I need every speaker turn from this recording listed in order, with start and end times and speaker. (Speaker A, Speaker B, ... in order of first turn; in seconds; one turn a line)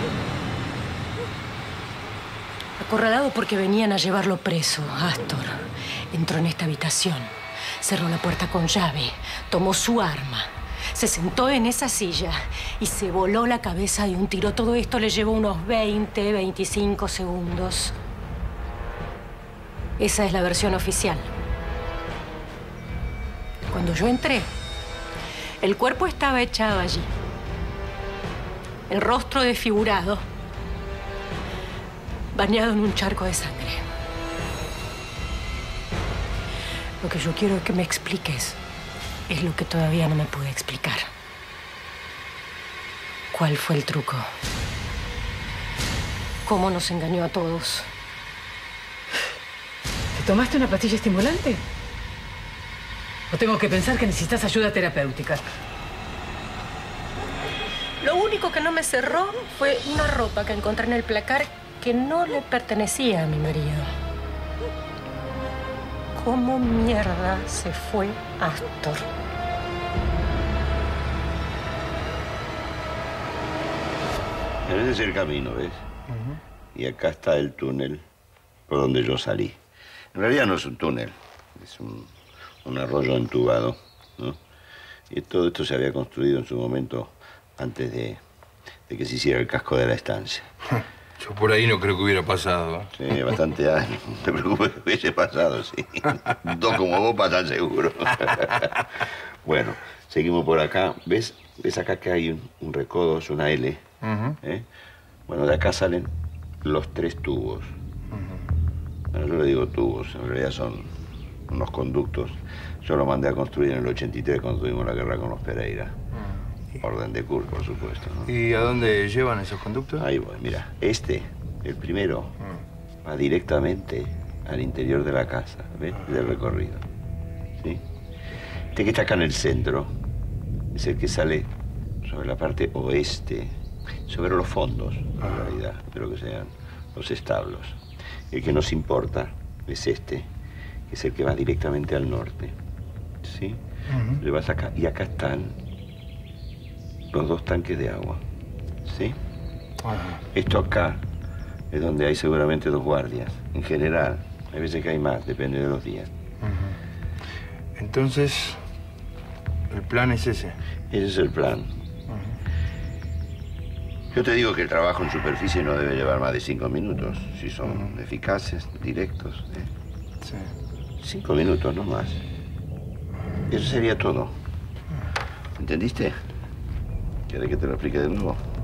Speaker A: 2.8-17.9
Speaker A: 20.0-21.3
Speaker A: 23.7-24.5
Speaker A: 25.6-27.1
Speaker A: 28.9-30.2
Speaker A: 32.3-33.8
Speaker A: 37.0-38.6
Speaker A: 39.3-41.1
Speaker A: 43.3-44.3
Speaker A: 46.4-47.9
Speaker B: 50.1-51.6
Speaker B: 53.3-55.4
Speaker A: 58.0-63.9
Speaker A: 66.1-69.1
Speaker C: 74.7-75.8
Speaker C: 76.7-78.0
Speaker C: 78.7-79.6
Speaker C: 80.1-82.1
Speaker C: 82.6-84.4
Speaker C: 85.1-88.2
Speaker C: 88.9-90.5
Speaker D: 91.2-92.9
Speaker C: 93.0-103.8
Speaker D: 104.0-104.3
Speaker C: 105.3-106.1
Speaker C: 106.6-107.7
Speaker C: 109.1-110.9
Speaker C: 111.5-116.0
Speaker C: 116.8-118.3
Speaker D: 118.2-120.0
Speaker C: 120.0-122.3
Speaker C: 123.0-126.8
Speaker C: 128.7-129.9
Speaker C: 130.7-131.5
Speaker C: 132.0-137.8
Speaker C: 138.3-140.3
Speaker C: 140.9-142.5
Speaker C: 143.2-143.6
Speaker D: 143.9-144.2
Speaker C: 144.2-145.6
Speaker C: 147.1-148.2
Speaker C: 148.8-149.2
Speaker D: 149.8-150.2
Speaker C: 150.3-151.0
Speaker C: 151.7-156.1
Speaker D: 156.4-156.7
Speaker D: 157.8-158.6
Speaker D: 159.7-160.5
Speaker C: 160.9-161.7
Speaker C: 164.1-169.7
Speaker C: 171.0-172.2
Speaker C: 173.5-174.3
Speaker C: 175.6-176.2
Speaker C: 177.3-178.4